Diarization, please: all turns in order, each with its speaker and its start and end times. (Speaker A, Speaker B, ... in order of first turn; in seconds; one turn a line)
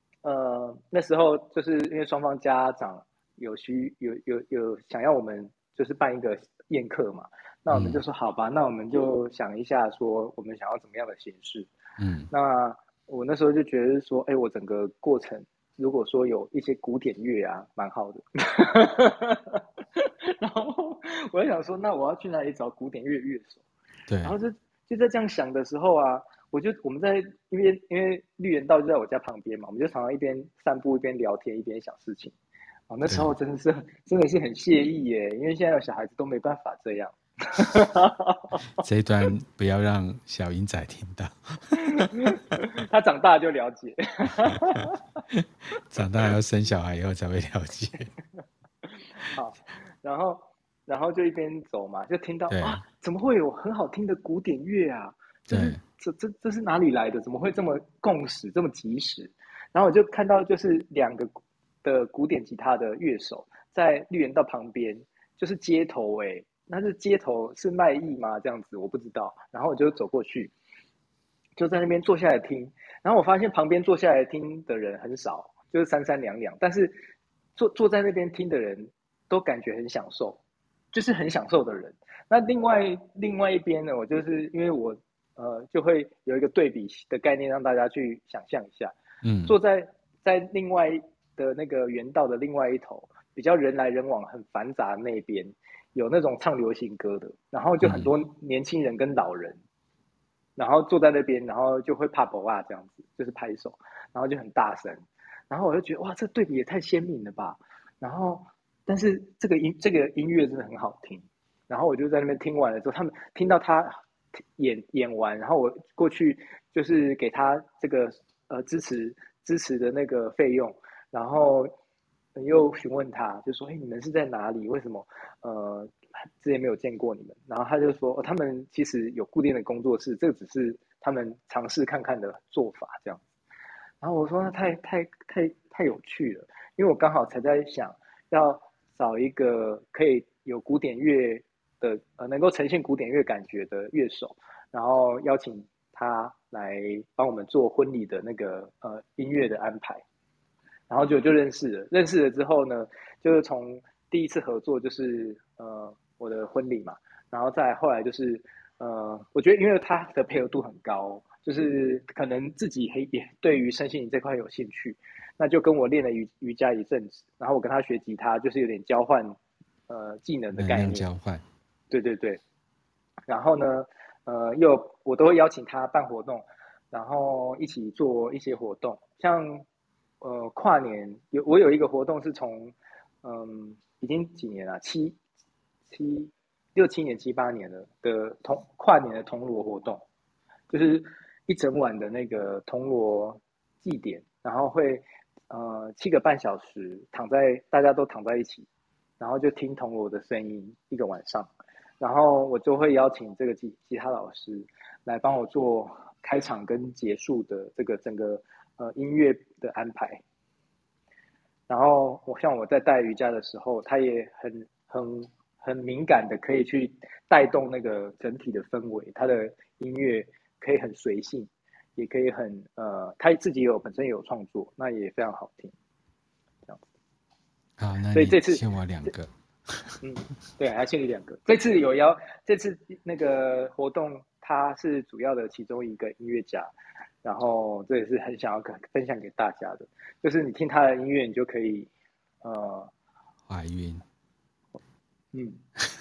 Speaker A: 0.2-11.7
Speaker B: 7.7-8.0
Speaker B: 12.0-12.3
Speaker A: 12.3-23.6
Speaker B: 24.1-24.3
Speaker A: 24.2-32.3
Speaker A: 32.9-38.7
Speaker B: 33.1-33.3
Speaker B: 38.8-42.1
Speaker A: 41.8-45.2
Speaker B: 45.3-48.1
Speaker A: 48.9-61.3
Speaker B: 52.5-52.8
Speaker B: 55.5-55.8
Speaker A: 61.8-70.5
Speaker A: 71.6-77.0
Speaker A: 77.6-80.4
Speaker A: 80.9-88.9
Speaker B: 89.2-89.5
Speaker A: 89.5-99.6
Speaker B: 97.8-98.1
Speaker A: 100.6-114.0
Speaker A: 114.6-121.7
Speaker A: 122.3-133.3
Speaker A: 134.0-150.0
Speaker A: 150.9-169.4
Speaker A: 169.9-171.1
Speaker B: 170.5-171.4
Speaker A: 171.9-172.4
Speaker A: 173.3-179.6
Speaker A: 180.2-185.2
Speaker A: 185.9-190.0
Speaker A: 190.7-198.7
Speaker A: 199.2-210.2
Speaker A: 211.7-225.7
Speaker B: 227.8-230.0
Speaker A: 228.1-228.6
Speaker A: 230.0-236.7
Speaker A: 237.2-241.9
Speaker A: 242.4-242.9
Speaker B: 243.5-244.0
Speaker A: 245.3-245.6